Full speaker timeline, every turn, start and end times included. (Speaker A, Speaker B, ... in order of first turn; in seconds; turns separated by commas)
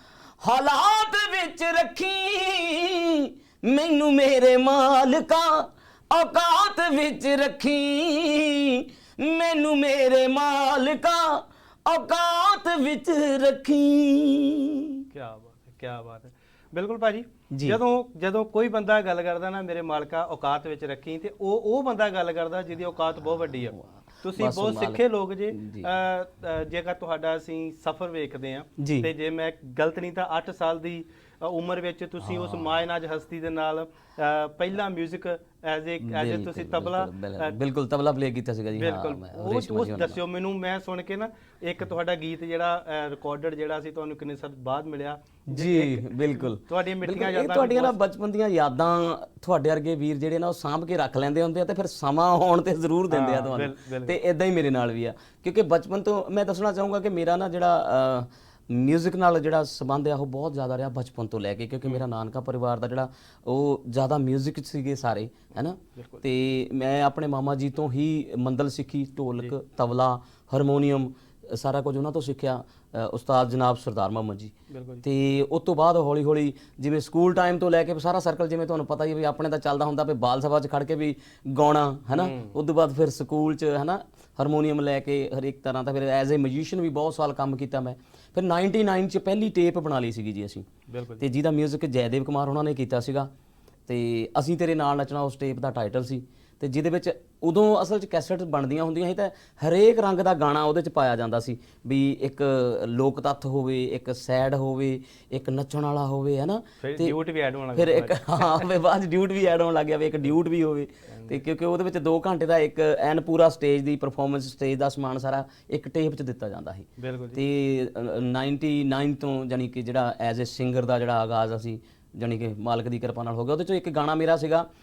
Speaker A: 0.4-15.0, Speaker B: 15.1-37.5, Speaker A: 17.5-17.8, Speaker A: 23.4-25.9, Speaker A: 28.8-29.1, Speaker A: 32.2-32.8, Speaker A: 36.0-40.2, Speaker B: 38.7-48.0, Speaker A: 45.5-90.7, Speaker B: 53.1-54.2, Speaker B: 74.7-75.0, Speaker B: 82.1-82.5, Speaker B: 90.9-91.2, Speaker A: 91.2-93.3, Speaker A: 93.9-107.1, Speaker B: 106.8-108.6, Speaker A: 107.7-124.7, Speaker B: 117.0-117.4